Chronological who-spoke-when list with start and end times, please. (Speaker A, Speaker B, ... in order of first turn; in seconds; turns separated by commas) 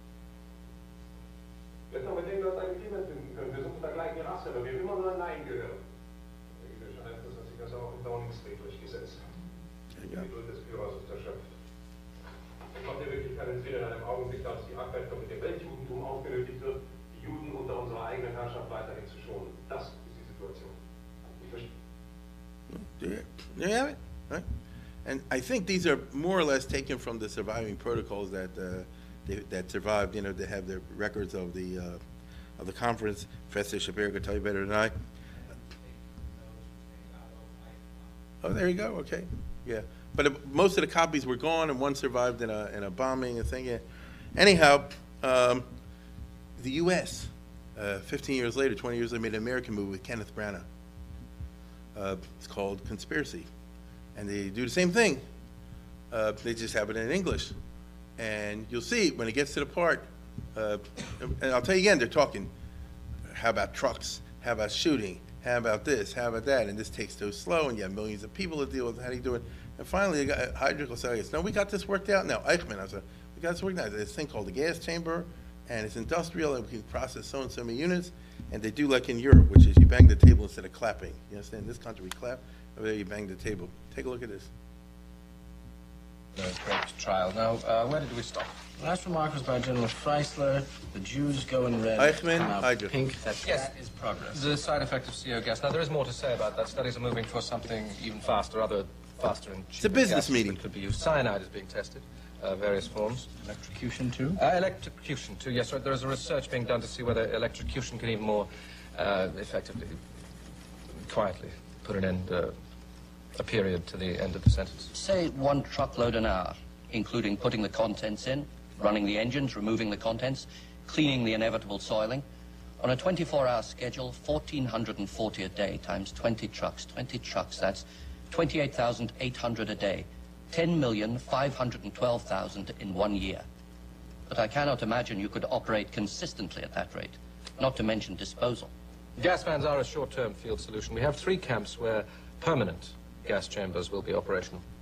Speaker A: 1.9-5.8, Speaker A: 6.6-9.3, Speaker B: 10.0-10.2, Speaker A: 10.1-11.4, Speaker A: 12.7-20.8, Speaker A: 21.4-21.7, Speaker B: 22.7-24.4, Speaker B: 25.0-32.0, Speaker B: 32.6-34.9, Speaker B: 38.4-43.8, Speaker B: 44.3-45.7, Speaker B: 46.6-50.6, Speaker B: 51.9-53.5, Speaker B: 54.1-55.2, Speaker B: 56.1-57.5, Speaker B: 58.2-62.5, Speaker B: 63.3-84.5, Speaker C: 86.3-88.6, Speaker D: 88.8-94.4, Speaker B: 92.0-93.0, Speaker C: 93.4-93.7, Speaker C: 94.3-103.3, Speaker B: 99.8-100.6, Speaker D: 103.5-104.4, Speaker C: 104.3-110.0, Speaker C: 110.9-112.5, Speaker C: 113.3-114.9, Speaker E: 114.9-122.2, Speaker E: 122.8-133.4, Speaker E: 134.3-138.7, Speaker C: 139.2-144.6